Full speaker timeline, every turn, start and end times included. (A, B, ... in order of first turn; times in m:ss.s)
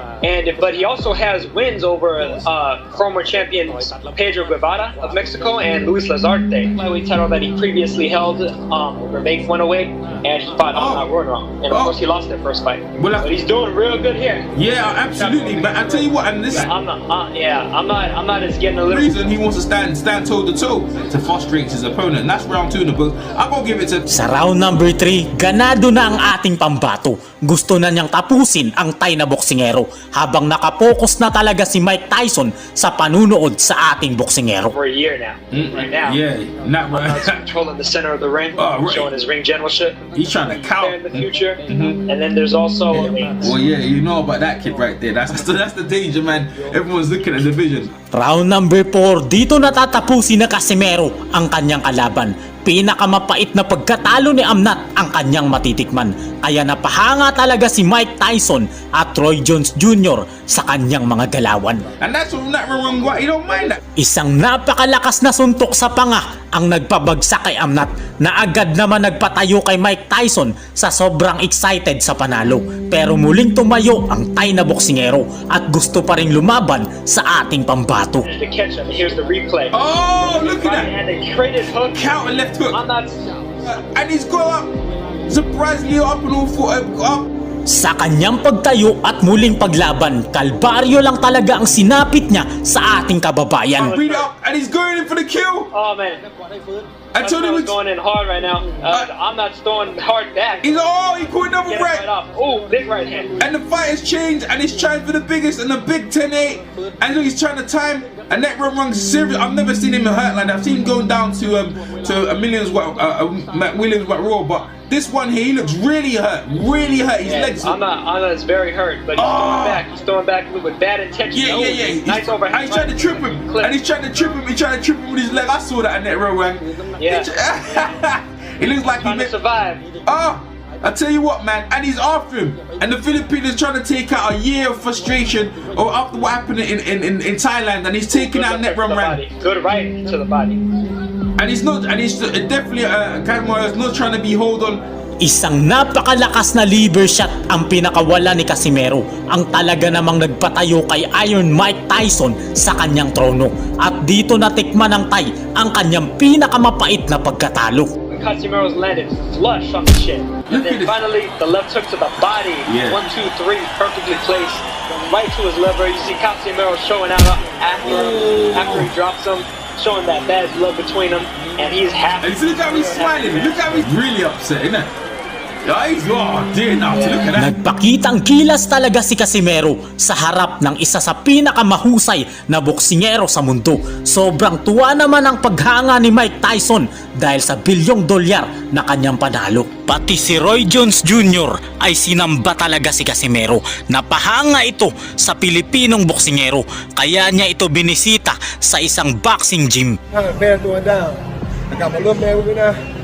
0:00.2-0:14.5 A
0:10.7-0:11.1 B
0:13.0-0:13.3 B
0:14.5-0:16.7 B
0:15.2-0:19.3 A
0:18.9-0:24.1 B
0:24.1-0:34.7 C
0:34.7-0:36.2 A
0:35.5-0:37.4 B
0:36.9-0:43.6 A
0:38.6-0:39.1 B
0:40.2-0:42.0 B
0:43.0-0:47.9 B
0:48.1-1:01.9 C
1:02.0-1:03.8 B
1:04.0-1:18.3 C
1:18.2-1:23.4 A
1:19.7-1:20.9 B
1:21.8-1:22.8 B
1:23.6-1:24.7 B
1:25.3-1:27.3 B
1:27.7-1:33.9 C
1:33.8-1:34.3 A
1:33.8-1:35.7 B
1:35.7-1:36.3 A
1:37.2-1:37.7 B
1:37.2-1:40.8 A
1:40.6-1:42.1 B
1:41.7-1:43.4 A
1:43.4-1:57.8 B
1:57.2-2:03.8 A
1:59.2-1:59.8 B
2:01.3-2:09.3 B
2:07.0-2:07.3 A
2:09.0-2:09.9 A
2:10.0-2:19.2 B
2:18.1-2:20.7 A
2:21.4-2:24.8 B
2:25.2-2:37.9 C
2:38.1-2:53.7 A
2:40.5-2:41.0 B
2:42.7-2:43.0 B
2:47.8-2:48.9 B
2:52.2-2:54.9 B
2:55.6-2:57.5 B
2:56.9-2:57.4 A
2:57.4-3:20.0 C
3:20.1-3:22.8 D